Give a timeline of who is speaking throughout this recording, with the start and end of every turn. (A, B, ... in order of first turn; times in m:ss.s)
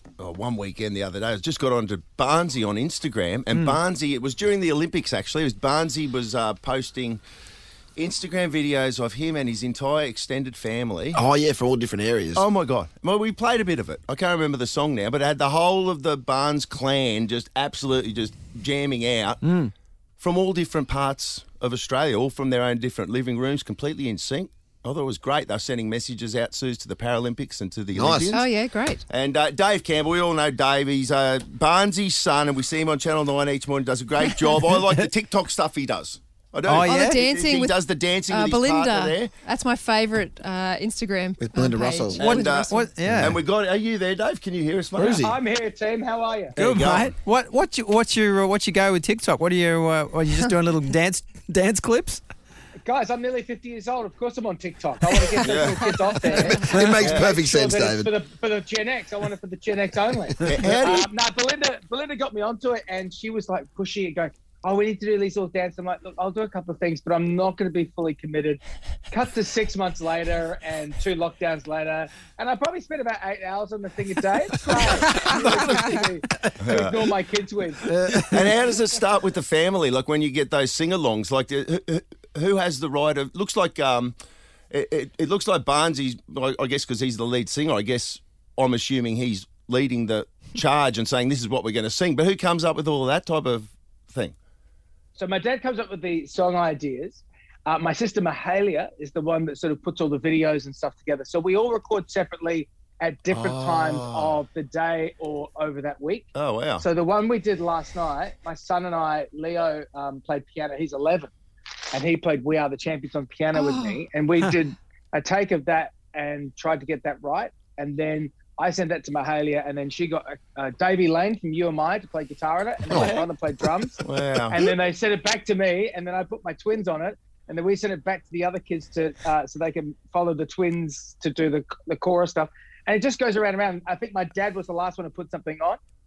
0:00.2-0:07.2 A
0:08.0-0:11.2 A
0:11.1-0:12.4 B
0:12.3-0:19.4 A
0:19.4-0:19.7 C
0:20.2-0:28.5 A
0:27.9-0:28.4 B
0:28.3-0:29.0 D
0:29.1-0:39.3 A
0:34.6-0:35.0 C
0:36.6-0:37.3 C
0:36.8-0:42.9 D
0:41.4-0:42.5 B
0:42.2-0:43.4 C
0:42.2-0:45.2 A
0:43.0-0:43.3 B
0:45.0-0:45.3 B
0:45.1-0:46.6 E
0:46.6-0:47.1 A
0:46.6-0:52.2 C
0:52.8-1:08.6 E
0:55.4-0:55.8 A
0:56.4-0:58.1 B
0:57.0-0:57.3 A
1:00.4-1:01.1 A
1:09.1-1:18.0 E
1:16.6-1:17.0 A
1:17.9-1:18.4 C
1:18.3-1:24.2 A
1:24.7-1:34.3 A
1:35.2-1:51.3 E
1:43.3-1:44.4 A
1:46.3-1:46.8 A
1:51.9-2:15.8 E
2:02.9-2:03.2 C
2:04.0-2:04.6 A